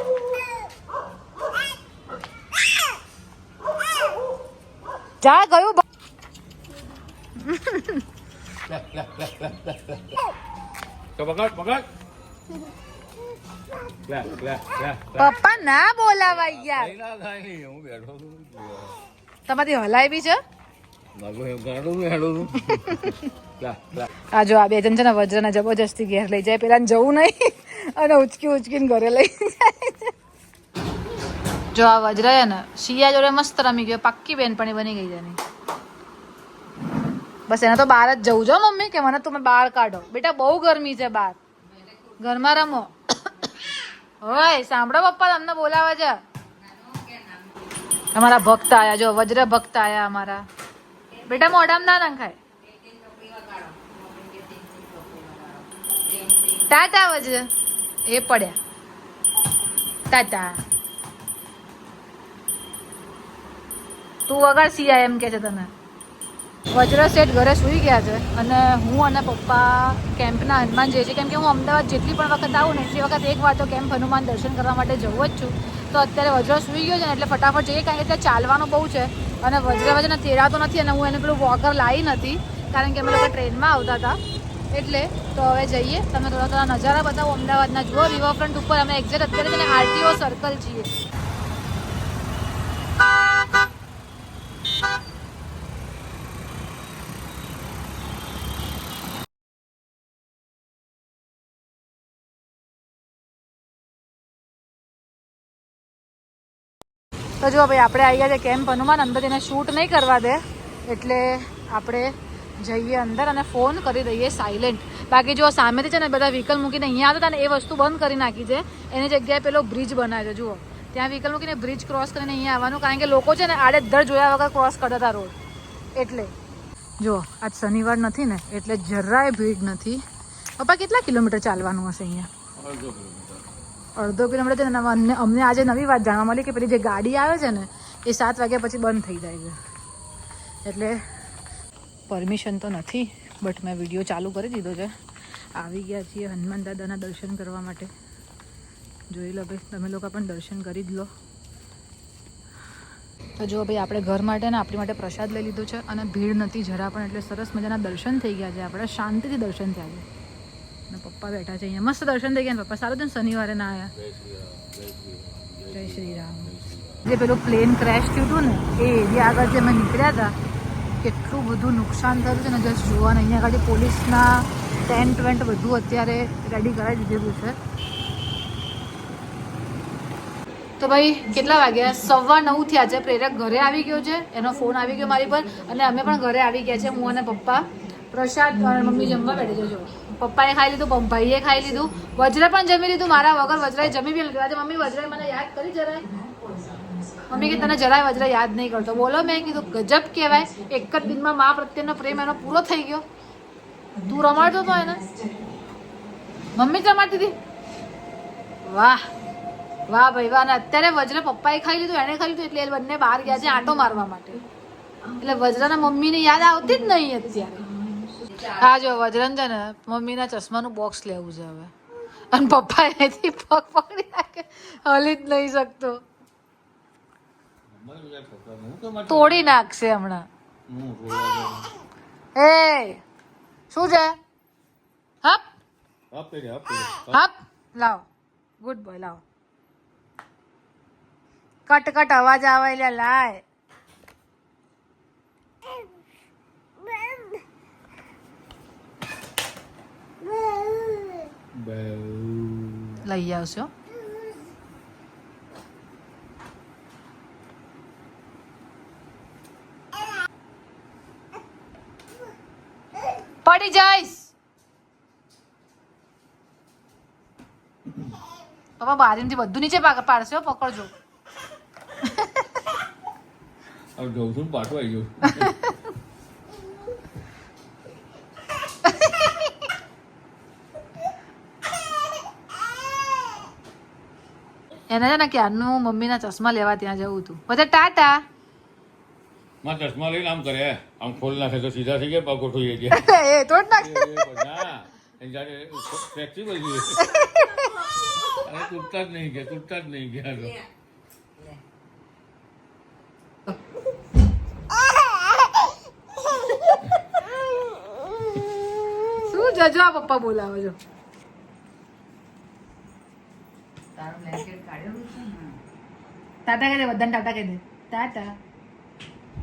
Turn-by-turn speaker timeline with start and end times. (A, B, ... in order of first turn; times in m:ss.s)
0:05.2-0:05.8 A
0:07.4-0:08.0 A
0:08.7-0:10.1 B
0:11.2-0:11.9 B
0:14.1-0:15.4 B
0:15.2-0:16.9 A
0:16.3-0:19.0 B
0:19.5-0:20.4 A
0:21.2-0:24.1 B
0:22.7-0:23.2 A
0:24.3-0:30.1 A
0:31.7-0:35.4 A
0:37.5-0:41.4 A
0:41.8-0:42.3 C
0:42.2-0:43.3 A
0:44.2-0:46.2 A
0:46.6-0:47.6 C
0:48.1-0:50.4 A
0:51.2-0:52.4 A
0:52.6-0:56.6 C
0:56.7-0:57.5 A
0:58.1-0:58.6 A
1:00.1-1:00.6 A
1:04.3-1:05.7 A
1:06.7-1:24.2 A
1:24.7-1:30.9 A
1:47.4-2:05.4 A
2:06.0-2:06.3 A
2:07.0-2:10.0 A
2:10.6-2:12.3 A
2:12.6-2:13.4 B
2:14.0-2:19.6 A
2:20.6-2:21.0 A
2:22.1-2:24.9 A
2:25.6-2:27.9 A
2:29.1-2:31.1 A
2:33.4-2:40.1 A
2:40.9-2:43.9 A
2:44.0-2:47.1 B
2:45.7-2:46.5 A
2:47.0-2:50.4 A
2:51.0-2:57.6 A
3:00.8-3:16.2 A
3:17.3-3:23.0 A
3:24.0-3:25.0 A
3:26.5-3:27.4 A
3:28.6-3:29.1 A
3:29.9-3:34.4 A
3:35.1-3:37.7 A
3:38.3-3:46.0 A
3:47.7-3:49.6 B
3:49.1-3:50.3 A
3:50.7-3:51.7 B
3:52.4-3:53.0 A
3:53.7-3:54.2 A
3:56.1-3:57.2 B
3:57.1-3:58.1 A
3:58.6-3:59.2 A
4:01.7-4:03.4 A
4:11.5-4:13.0 B
4:13.0-4:13.7 A
4:23.4-4:24.3 A
4:28.8-4:30.9 A
4:32.0-4:32.4 A
4:34.0-4:35.6 B
4:44.9-4:48.2 A
4:49.6-4:53.1 B
4:52.9-4:54.2 A
4:53.7-4:57.1 B
4:57.0-4:57.7 A
4:58.3-5:00.6 B
5:09.1-5:10.8 A
5:14.0-5:15.5 C
5:16.5-5:18.4 A